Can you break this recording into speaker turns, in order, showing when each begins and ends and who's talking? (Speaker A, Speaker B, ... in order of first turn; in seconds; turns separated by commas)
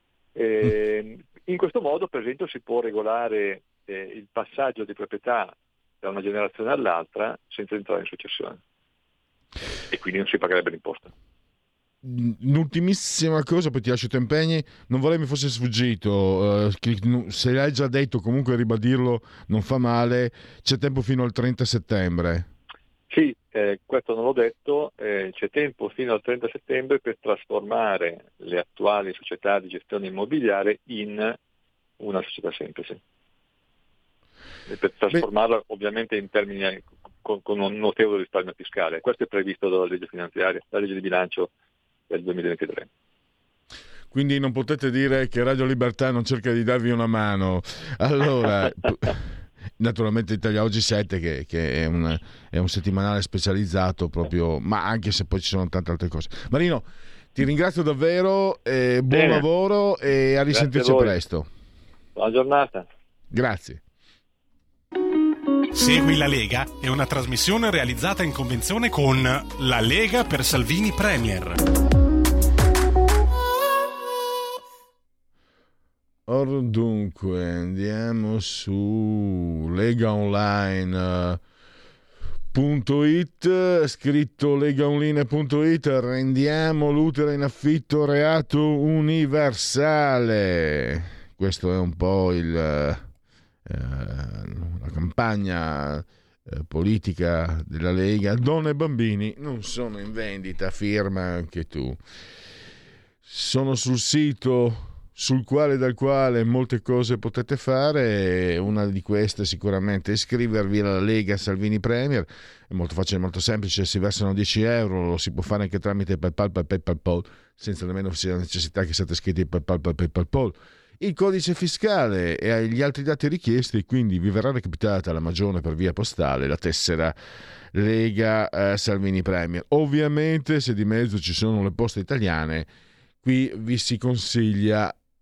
Speaker A: 0.3-8.6, Speaker A: 9.9-11.1, Speaker B: 12.0-22.5, Speaker A: 23.1-31.4, Speaker A: 32.0-33.0, Speaker A: 34.7-41.5, Speaker A: 42.1-42.9, Speaker B: 44.1-49.2, Speaker B: 49.8-61.5, Speaker A: 59.1-59.4, Speaker A: 60.5-61.1, Speaker A: 62.1-62.9, Speaker B: 63.3-63.8, Speaker C: 65.7-71.6, Speaker B: 76.2-81.4, Speaker B: 82.5-93.0, Speaker B: 93.7-102.0, Speaker B: 103.2-127.1, Speaker B: 127.7-132.7, Speaker B: 133.2-134.9